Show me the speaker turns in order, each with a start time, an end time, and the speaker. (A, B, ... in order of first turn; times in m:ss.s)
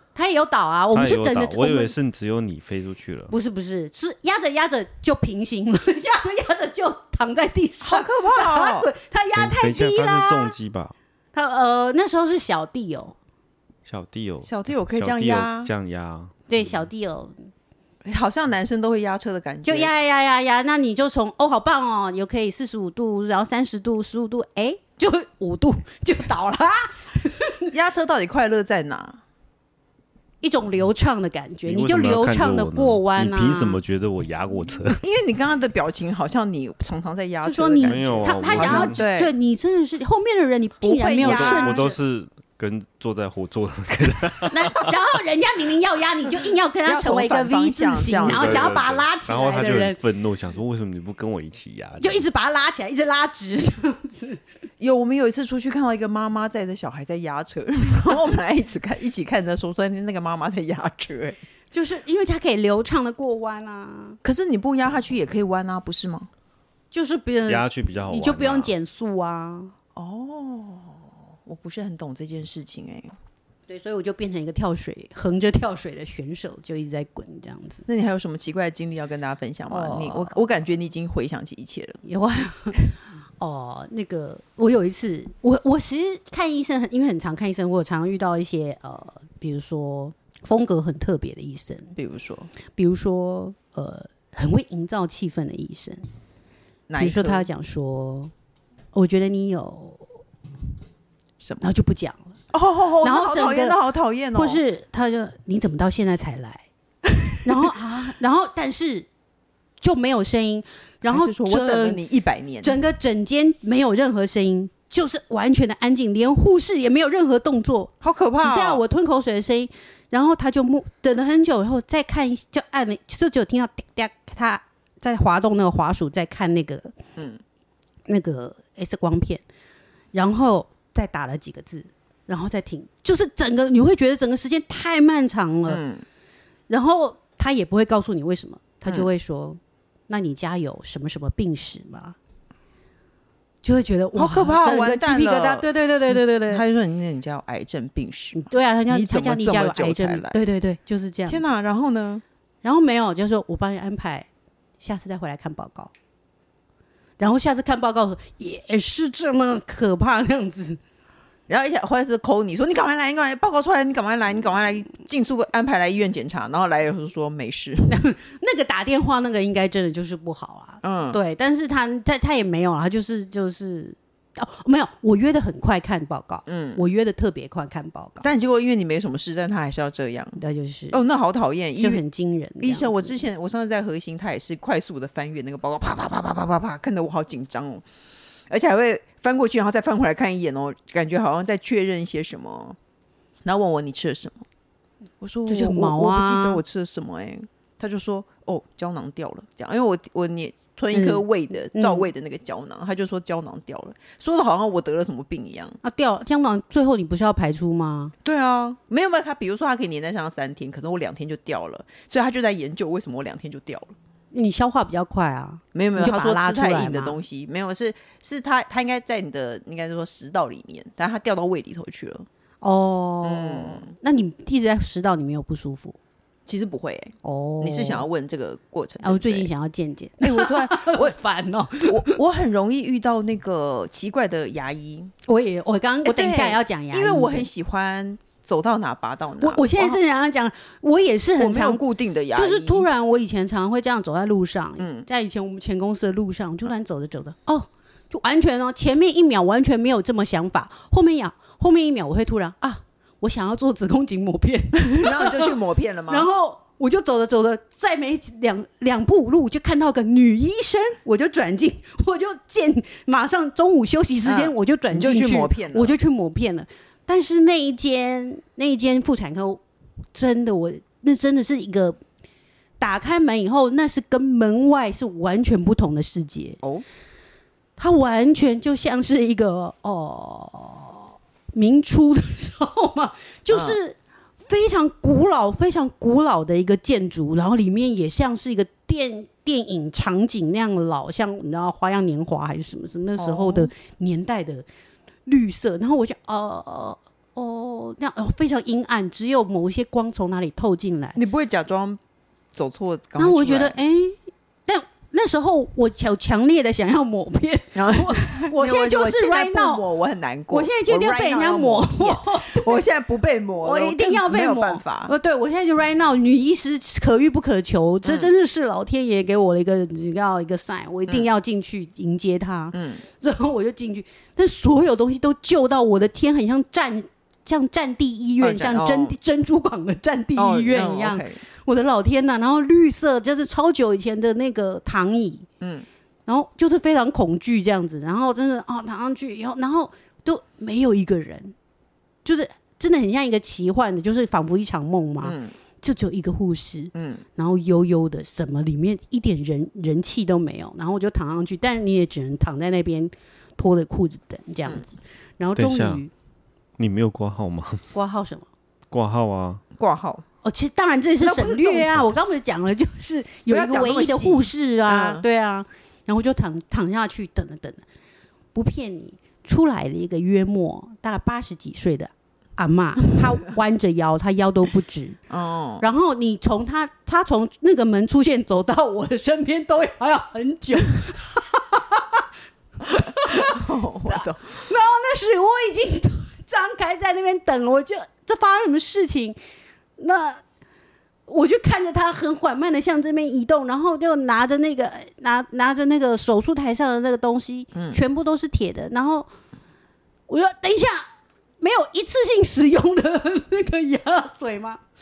0:00.1-0:01.9 A
0:00.9-0:03.3 B
0:03.3-0:10.5 A
0:07.8-0:08.9 C
0:09.3-0:11.0 B
0:11.3-0:13.1 A
0:13.8-0:16.8 B
0:14.4-0:15.7 C
0:16.5-0:17.4 A
0:18.0-0:19.9 C
0:19.6-0:27.7 A
0:27.7-0:29.2 C
0:30.4-0:33.8 A
0:31.6-0:35.0 B
0:35.0-0:39.3 C
0:37.4-0:41.9 A
0:37.9-0:39.0 B
0:40.8-0:41.9 C
0:41.2-0:44.9 B
0:44.5-0:50.0 A
0:46.8-0:48.7 C
0:48.2-0:52.2 B
0:52.0-0:54.4 A
0:54.8-1:01.4 C
1:01.7-1:04.2 A
1:04.2-1:06.3 C
1:06.9-1:09.7 A
1:07.5-1:08.7 B
1:10.0-1:13.1 C
1:13.7-1:17.8 A
1:17.9-1:22.0 C
1:19.7-1:20.4 A
1:22.0-1:32.0 A
1:32.0-1:32.5 C
1:32.7-1:36.0 A
1:36.9-1:37.5 C
1:37.0-1:38.3 A
1:38.9-1:40.2 A
1:41.4-1:41.7 C
1:41.6-1:42.3 A
1:42.5-1:44.6 C
1:43.0-1:43.8 A
1:44.3-1:46.6 A
1:47.4-1:49.1 A
1:49.8-1:52.0 A
1:51.1-1:52.8 C
1:52.6-2:06.9 A
1:58.0-1:58.8 C
2:08.1-2:09.4 A
2:10.1-2:15.8 A
2:15.7-2:16.0 C
2:16.7-2:22.2 A
2:23.6-2:26.6 A
2:24.2-2:30.4 C
2:28.4-2:31.4 A
2:31.3-2:32.2 C
2:32.6-2:34.3 A
2:34.8-2:35.9 A
2:37.2-2:40.8 A
2:41.5-2:48.0 C
2:47.9-2:58.2 A
2:50.8-2:51.2 C
2:56.5-2:56.8 C
2:58.2-3:00.4 C
3:00.4-3:01.0 A
3:00.9-3:02.0 C
3:01.8-3:03.2 A
3:02.6-3:07.8 C
3:08.5-3:12.8 C
3:13.4-3:14.4 C
3:15.2-3:25.8 C
3:15.5-3:16.6 A
3:20.9-3:22.1 A
3:25.8-3:28.1 A
3:28.2-3:33.9 C
3:34.3-3:37.2 A
3:35.7-3:42.3 C
3:42.6-3:46.0 A
3:43.2-3:43.9 C
3:46.5-3:49.5 C
3:47.2-3:48.0 A
3:49.0-3:52.2 A
3:50.2-3:51.2 C
3:51.8-3:55.1 C
3:55.3-3:57.5 A
3:56.0-4:00.0 C
3:59.4-4:15.5 A
4:01.4-4:02.9 C
4:04.8-4:05.0 C
4:14.8-4:16.3 C
4:16.1-4:29.6 A
4:24.2-4:26.0 C
4:30.1-4:32.0 A
4:32.8-4:36.6 A
4:37.8-4:54.6 A
4:43.5-4:43.8 C
4:53.2-4:53.7 C
4:55.2-5:01.2 A
5:01.2-5:02.0 C
5:02.6-5:03.8 C
5:03.2-5:09.8 A
5:07.7-5:15.1 C
5:10.5-5:12.8 A
5:13.6-5:35.5 A
5:18.0-5:18.3 C
5:22.7-5:23.0 C
5:28.4-5:29.2 C
5:30.4-5:31.4 C
5:35.6-5:35.8 C
5:36.2-5:41.5 A
5:42.2-5:56.1 A
5:45.2-5:45.5 C
5:46.9-5:47.2 C
5:55.6-5:56.0 B
5:56.8-5:57.8 B
5:57.9-5:58.5 A
5:58.9-5:59.6 B
5:59.8-6:00.2 C
6:00.4-6:07.8 A
6:01.2-6:02.0 C
6:03.5-6:05.2 C
6:08.5-6:15.2 A
6:15.3-6:15.8 C
6:15.8-6:22.2 A
6:22.8-6:29.4 A
6:23.2-6:24.6 C
6:30.0-6:30.4 A
6:31.3-6:39.3 A
6:37.7-6:38.0 C
6:40.3-6:41.0 A
6:41.6-6:44.8 A